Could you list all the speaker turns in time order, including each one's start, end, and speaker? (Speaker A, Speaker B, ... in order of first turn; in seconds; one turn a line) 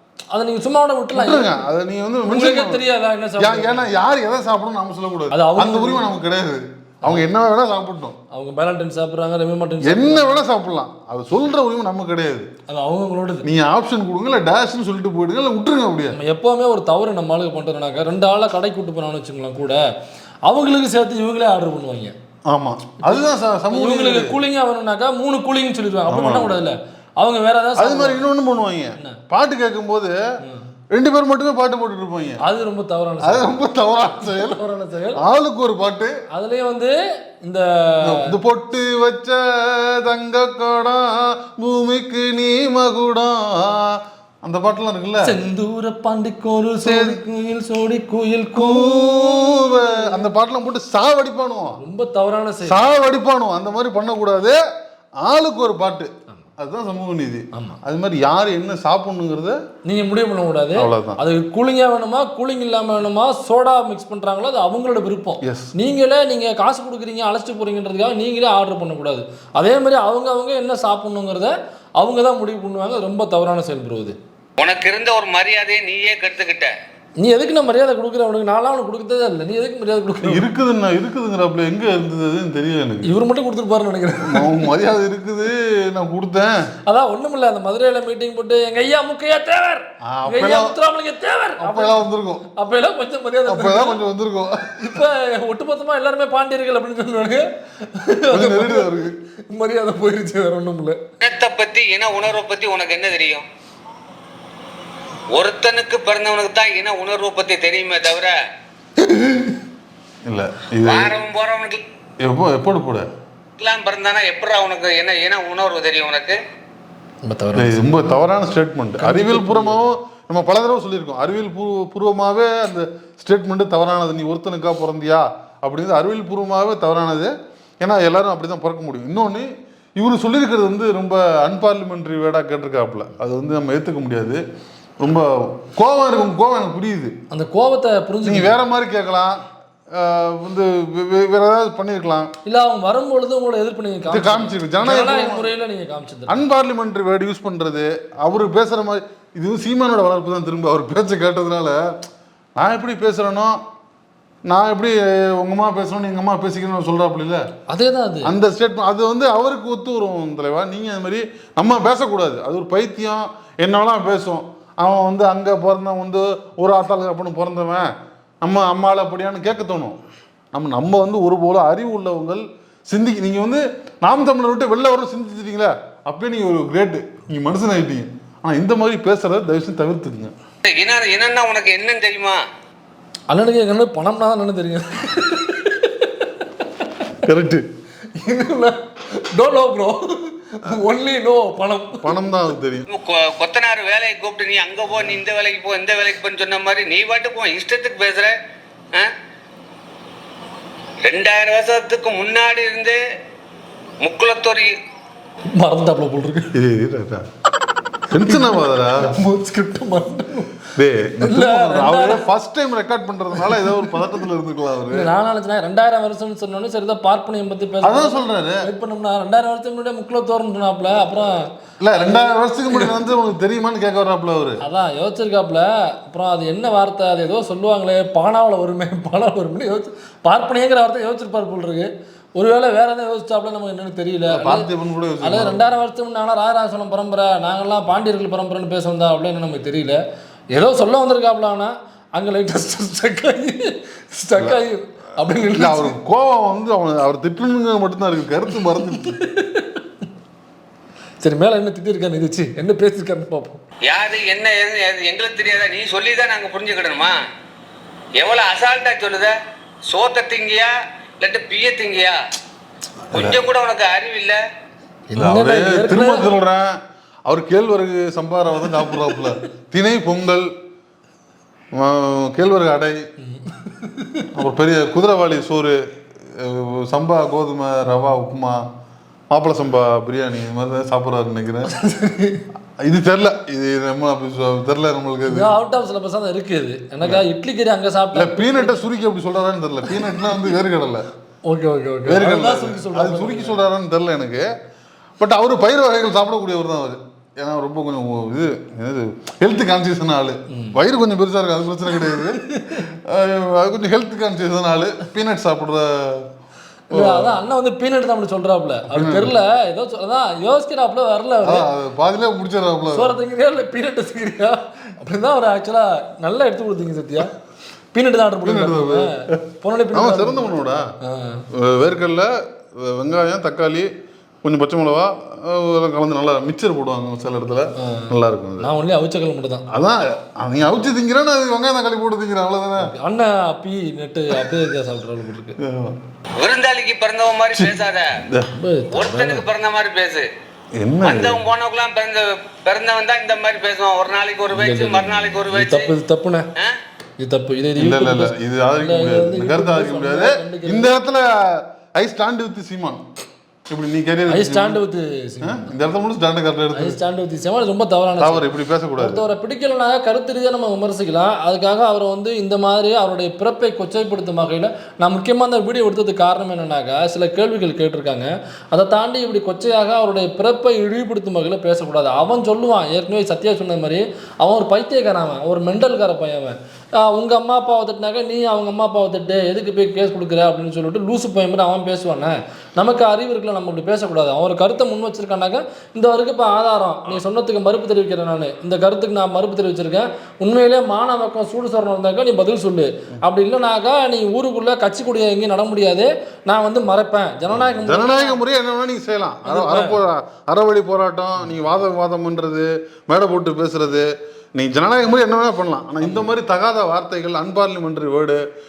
Speaker A: 0.3-1.5
Speaker B: 1.1-2.8
Speaker A: 2.2-3.9
Speaker B: 3.4-8.2
Speaker A: 5.3-6.1
Speaker A: 8.3-10.4
Speaker B: 9.8-12.5
Speaker A: 12.7-13.5
Speaker B: 13.4-16.2
Speaker A: 16.1-19.8
Speaker A: 20.5-22.1
Speaker B: 22.5-24.4
Speaker A: 23.0-28.3
Speaker B: 26.1-26.6
Speaker B: 27.8-30.2
Speaker B: 30.9-32.4
Speaker A: 32.4-33.6
Speaker B: 33.2-34.6
Speaker A: 34.1-35.2
Speaker B: 35.2-36.2
Speaker A: 36.3-38.3
Speaker B: 38.0-45.3
Speaker A: 45.2-50.2
Speaker B: 46.8-47.2
Speaker B: 48.5-51.8
Speaker A: 51.8-52.9
Speaker B: 52.6-54.6
Speaker B: 55.2-59.6
Speaker A: 57.5-57.8
Speaker A: 59.9-74.2
Speaker B: 60.8-61.2
Speaker B: 65.4-65.7
Speaker C: 74.6-76.7
Speaker A: 77.2-80.5
Speaker B: 80.2-83.1
Speaker A: 83.0-84.7
Speaker B: 84.2-86.7
Speaker A: 86.9-94.0
Speaker B: 90.0-90.8
Speaker B: 91.6-92.4
Speaker B: 93.5-95.0
Speaker A: 94.8-101.0
Speaker B: 98.3-99.1
Speaker C: 101.2-103.5
Speaker C: 105.3-108.4
Speaker A: 109.0-109.6
Speaker B: 110.2-111.1
Speaker C: 110.8-111.8
Speaker B: 112.2-113.1
Speaker C: 113.6-116.4
Speaker A: 117.2-118.2
Speaker B: 117.5-134.4
Speaker A: 119.0-119.8
Speaker B: 135.0-137.1
Speaker A: 137.3-138.6
Speaker B: 138.2-139.4
Speaker B: 139.9-142.3
Speaker A: 142.5-146.4
Speaker B: 144.1-145.5
Speaker B: 146.3-151.8
Speaker B: 152.6-153.6
Speaker B: 154.5-157.4
Speaker A: 157.7-158.3
Speaker B: 158.2-167.9
Speaker B: 168.4-170.0
Speaker B: 170.5-180.3
Speaker C: 180.6-182.4
Speaker A: 183.3-187.1
Speaker B: 187.2-187.7
Speaker A: 188.1-192.2
Speaker B: 192.0-192.8
Speaker C: 192.9-198.4
Speaker C: 201.1-203.0
Speaker C: 204.0-204.7
Speaker A: 205.5-206.5
Speaker B: 206.5-207.3
Speaker B: 208.1-209.2
Speaker A: 208.1-212.2
Speaker B: 210.8-215.1
Speaker A: 213.3-214.1
Speaker A: 214.9-221.5
Speaker B: 217.8-218.6
Speaker B: 221.8-224.6
Speaker A: 224.6-234.7
Speaker B: 234.3-235.6
Speaker A: 235.2-240.0
Speaker A: 240.5-245.9
Speaker B: 245.6-249.2
Speaker A: 248.8-249.9
Speaker A: 251.2-253.6
Speaker C: 253.9-257.2
Speaker C: 258.2-259.4
Speaker C: 259.9-262.2
Speaker B: 263.1-263.4
Speaker C: 263.1-264.4
Speaker A: 265.1-266.3
Speaker B: 265.2-266.8
Speaker B: 267.2-270.5
Speaker A: 268.7-269.2
Speaker B: 271.8-273.0
Speaker A: 273.2-274.3
Speaker B: 274.4-275.8
Speaker B: 276.3-278.6
Speaker B: 279.3-281.7
Speaker A: 281.7-282.4
Speaker B: 282.8-285.5
Speaker A: 285.3-288.8
Speaker B: 288.1-291.1
Speaker A: 289.9-290.4
Speaker A: 291.5-293.6
Speaker B: 292.1-294.5
Speaker B: 295.2-306.3
Speaker A: 300.5-300.8
Speaker A: 301.9-302.9
Speaker A: 306.9-311.7
Speaker B: 306.9-307.4
Speaker B: 308.9-309.3
Speaker B: 311.4-313.1
Speaker A: 312.9-317.3
Speaker A: 317.9-321.4
Speaker B: 318.4-319.4
Speaker B: 319.9-320.9
Speaker B: 321.5-323.9
Speaker B: 324.4-328.7
Speaker A: 327.8-329.7
Speaker B: 329.7-332.9
Speaker A: 332.8-335.6
Speaker B: 335.6-336.0
Speaker C: 336.4-338.1
Speaker A: 338.5-339.4
Speaker C: 338.9-340.3
Speaker B: 340.8-341.4
Speaker C: 341.0-345.9
Speaker A: 344.5-346.5
Speaker A: 347.2-350.9
Speaker B: 347.8-353.0
Speaker B: 353.7-354.8
Speaker A: 354.3-355.7
Speaker B: 355.4-357.0
Speaker A: 356.7-398.4
Speaker B: 358.2-359.2
Speaker B: 397.5-408.4
Speaker A: 399.5-400.0
Speaker A: 406.0-406.3